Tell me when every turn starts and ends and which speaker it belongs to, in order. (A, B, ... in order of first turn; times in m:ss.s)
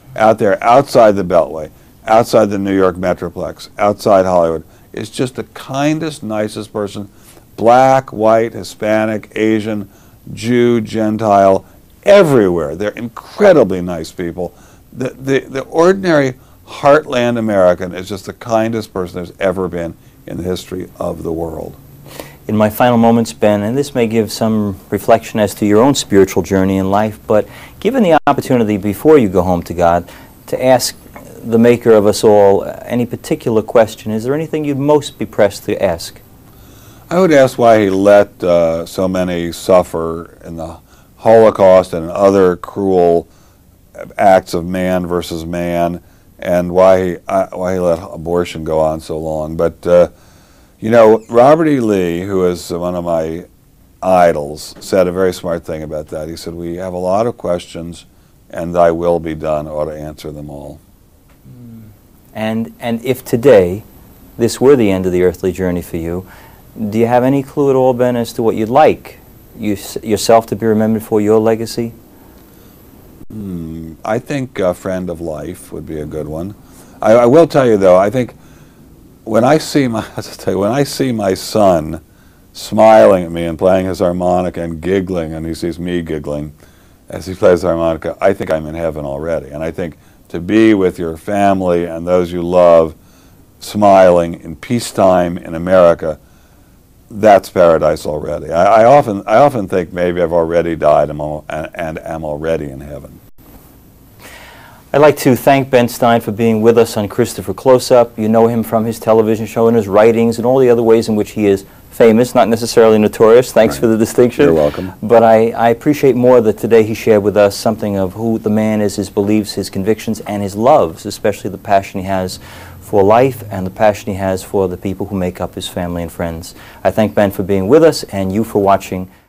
0:00.2-0:21.8 A
0:22.5-0:36.2 B
0:37.1-0:43.3 A
0:44.0-0:50.1 A
0:50.8-0:53.5 A
0:54.0-1:00.8 A
1:02.3-1:03.8 B
1:04.4-1:12.0 B
1:13.3-1:18.4 A
1:19.2-1:22.0 A
1:22.5-1:26.5 A
1:27.1-1:33.0 A
1:33.6-1:36.2 A
1:37.1-1:43.2 A
1:44.9-2:09.1 B
1:54.4-1:54.9 A